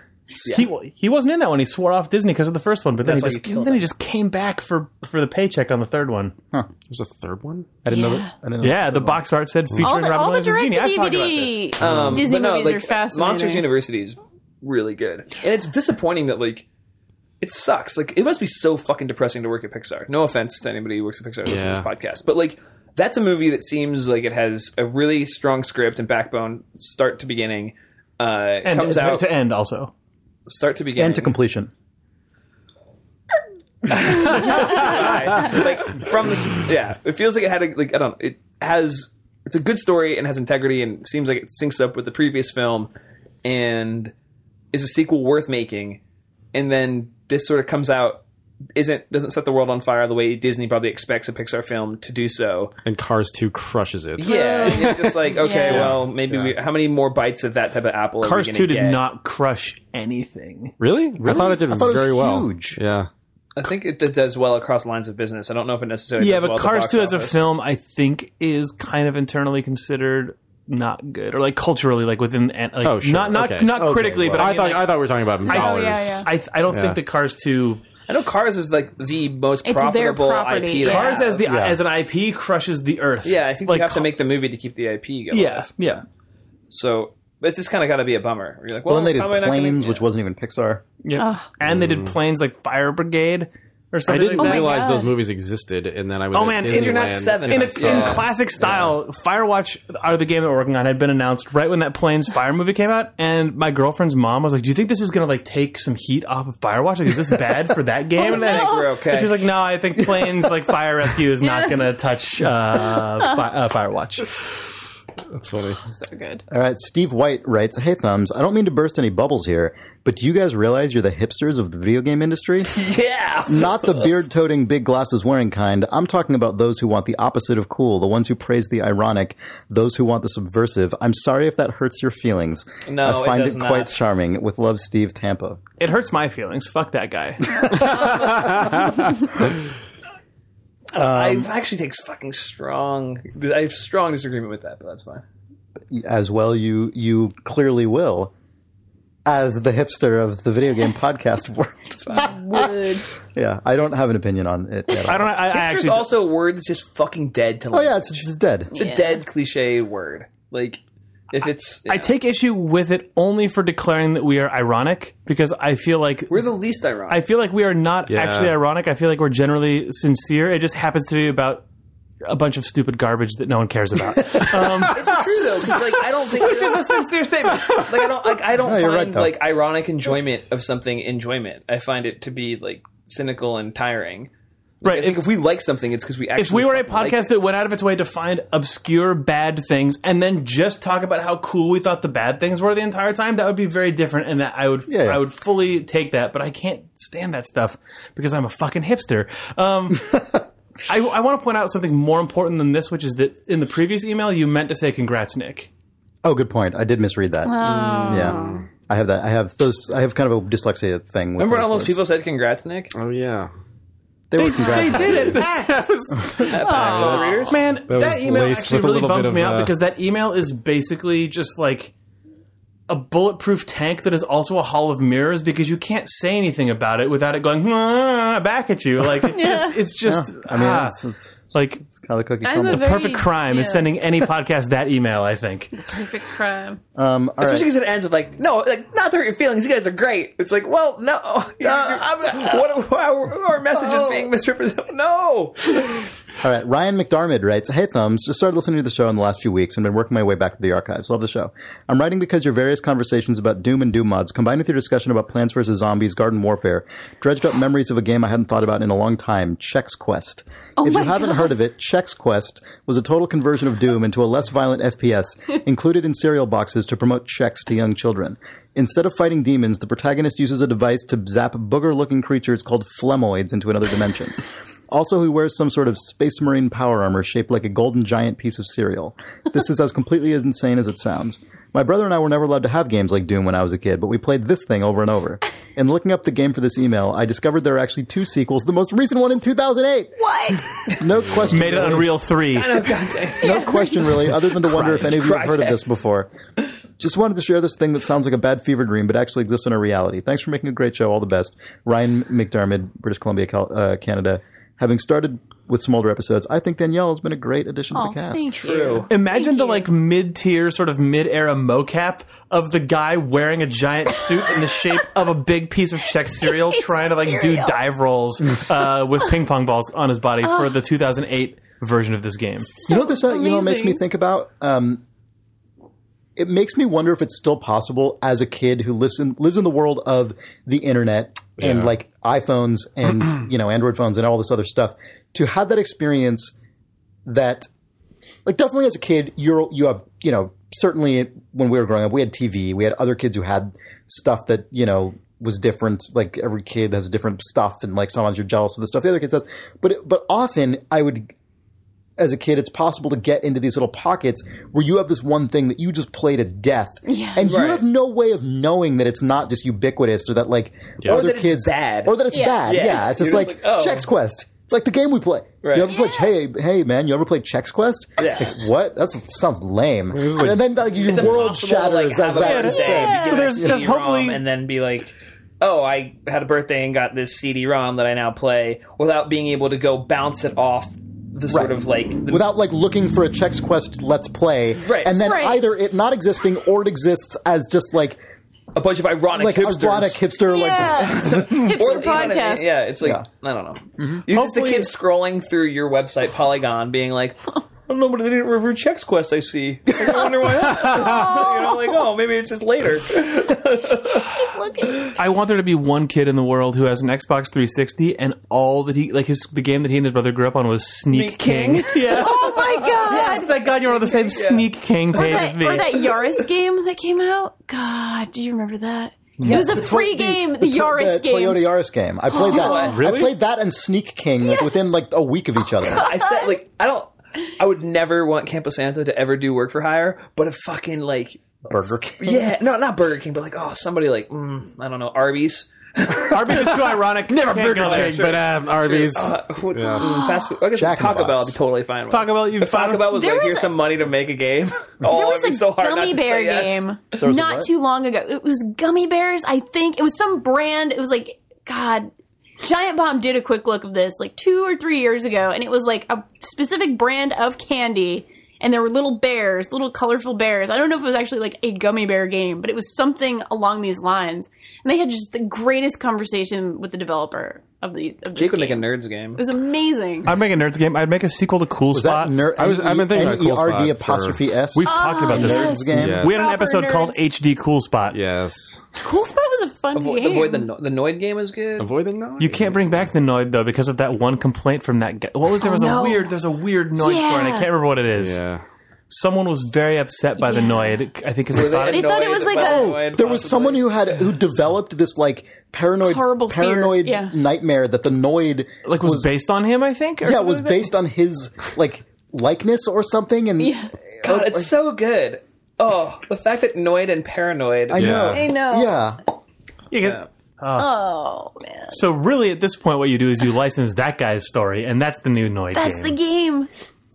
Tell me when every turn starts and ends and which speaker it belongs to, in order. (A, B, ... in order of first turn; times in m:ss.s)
0:00.4-0:06.4 A
0:03.0-0:03.9 B
0:06.9-0:07.7 C
0:07.8-0:09.2 D
0:07.9-0:08.3 E
0:08.6-0:11.7 A
0:09.8-0:13.6 E
0:11.8-0:12.3 C
0:11.8-0:16.6 B
0:17.4-0:29.3 B
0:21.4-0:21.8 C
0:28.6-0:29.9 A
0:30.5-0:31.3 B
0:31.0-0:31.7 D
0:33.9-0:42.9 B
0:43.4-0:44.1 B
0:44.7-0:46.0 B
0:46.5-0:48.2 B
0:48.7-0:52.7 B
0:52.8-0:56.5 C
0:54.2-0:59.0 B
0:54.3-0:55.9 E
0:54.3-0:54.8 A
0:58.2-1:00.8 A
1:00.8-1:03.1 C
1:01.2-1:02.8 D
1:03.6-1:07.4 B
1:06.2-1:14.9 A
1:12.8-1:17.0 C
1:13.7-1:14.5 D
1:15.4-1:16.3 E
1:15.4-1:17.8 A
1:18.1-1:21.4 B
1:19.6-1:21.2 E
1:20.8-1:24.1 A
1:21.4-1:21.8 D
1:23.2-1:26.0 B
1:25.3-1:26.0 A
1:26.7-1:30.1 B
1:28.9-1:30.8 D
1:31.0-1:34.8 A
1:31.2-1:31.5 E
1:31.7-1:32.1 C
1:34.1-1:39.0 C
1:34.4-1:35.1 E
1:36.3-1:54.4 A
1:36.7-1:38.3 B
1:48.2-1:49.4 B
1:48.2-1:48.9 E
1:51.4-1:51.7 E
1:55.3-1:55.8 C
1:55.8-1:56.4 E
1:56.5-2:02.7 D
2:02.7-2:04.1 B
2:03.5-2:15.6 D
2:12.8-2:14.0 B
2:15.8-2:18.2 A
2:20.9-2:25.2 B
2:21.0-2:21.5 D
2:25.9-2:28.3 D
2:29.2-2:35.3 D
2:32.1-2:33.1 E
2:35.0-2:36.1 A
2:35.4-2:42.1 B
2:37.7-2:38.7 D
2:38.7-2:39.2 E
2:41.9-2:46.5 A
2:46.3-2:47.2 B
2:47.1-2:51.6 A
2:48.1-2:48.5 C
2:52.3-2:55.7 A
2:54.8-2:57.0 B
2:56.3-2:58.1 A
2:57.7-3:04.3 B
2:58.6-2:59.3 D
3:04.8-3:07.3 B
3:04.8-3:05.2 A
3:06.4-3:20.3 A
3:14.9-3:15.2 D
3:20.9-3:25.7 A
3:26.2-3:32.0 D
3:27.4-3:28.6 E
3:27.6-3:28.6 C
3:31.4-3:32.9 B
3:32.9-3:33.5 C
3:34.3-3:35.4 D
3:34.4-3:41.9 A
3:34.7-3:39.7 C
3:36.4-3:37.6 B
3:36.7-3:37.0 E
3:42.9-3:51.0 A
3:49.3-3:49.8 E
3:50.0-3:53.1 D
3:51.5-3:51.9 A
3:52.4-3:53.9 E
3:52.6-3:55.8 A
3:55.7-3:56.8 E
3:57.0-3:57.7 D
3:57.4-4:06.0 B
4:01.6-4:02.5 D
4:06.4-4:52.1 D
4:20.8-4:21.5 E
4:50.2-4:50.6 E
4:51.2-4:51.5 C
4:51.5-4:52.9 A
4:52.5-4:53.7 B
4:53.4-4:56.3 D
4:53.4-4:54.2 E
4:54.6-4:55.1 A
4:54.7-4:55.8 B
4:57.0-5:08.9 D
5:07.9-5:09.9 E
5:08.6-5:09.1 B
5:09.1-5:22.8 A
5:16.7-5:17.8 E
5:22.7-5:24.0 E
5:22.9-5:25.0 D
5:26.4-5:36.5 D
5:31.6-5:31.9 C
5:37.2-5:37.7 D
5:38.4-5:51.3 D
5:52.2-6:13.8 D
5:57.0-5:57.5 E
5:57.4-5:57.8 B
6:01.0-6:04.1 B
6:02.3-6:03.1 E
6:05.6-6:05.9 B
6:05.9-6:06.3 E
6:08.2-6:08.5 B
6:10.1-6:10.6 C
6:10.9-6:22.4 B
6:12.4-6:14.4 A
6:12.9-6:13.4 E
6:22.3-6:28.2 D
6:24.8-6:25.4 B
6:25.1-6:25.6 E
6:28.7-6:30.2 B
6:29.3-6:32.3 D
6:30.5-6:32.7 E
6:31.1-6:44.3 B
6:33.0-6:33.2 D
6:34.0-6:34.2 D
6:34.3-6:34.9 A
6:41.0-6:41.5 E
6:44.1-6:45.1 E
6:45.1-6:56.1 A
6:51.1-6:54.7 B
6:52.1-6:53.7 E
6:55.1-7:01.6 E
6:59.4-6:59.8 A
6:59.4-7:06.1 D
7:02.3-7:03.0 E
7:02.3-7:03.0 B
7:03.0-7:03.3 A
7:05.8-7:11.4 B
7:06.1-7:06.5 E
7:11.6-7:12.5 D
7:12.2-7:17.0 B
7:16.3-7:18.4 A
7:17.3-7:20.0 C
7:17.5-7:26.9 B
7:19.9-7:20.5 E
7:20.7-7:21.6 D
7:22.1-7:23.1 A
7:23.1-7:23.7 E
7:25.0-7:50.3 E
7:27.2-7:27.7 D
7:48.4-7:49.4 B
7:50.2-7:52.3 A
7:51.9-7:56.2 D
7:52.6-7:54.4 C
7:54.7-7:58.2 A
7:54.8-7:57.2 E
7:55.9-7:56.4 C
7:58.1-7:58.8 C
7:59.0-8:00.7 E
7:59.9-8:01.9 B
8:01.8-8:03.0 C
8:02.4-8:08.4 A
8:05.6-8:06.3 E
8:07.0-8:07.7 E
8:08.2-8:08.6 C
8:09.1-8:12.4 A
8:10.4-8:11.0 E
8:11.5-8:13.8 B
8:11.8-8:13.2 E
8:12.5-8:19.3 D
8:16.0-8:17.3 E
8:18.8-8:20.8 A
8:20.2-8:24.7 D
8:23.6-8:23.9 E
8:24.2-8:28.4 B
8:27.9-8:29.2 D
8:27.9-8:28.4 C
8:28.2-8:28.9 E
8:29.9-8:30.9 A
8:30.8-8:32.0 E
8:31.9-8:36.2 A
8:35.7-8:36.7 E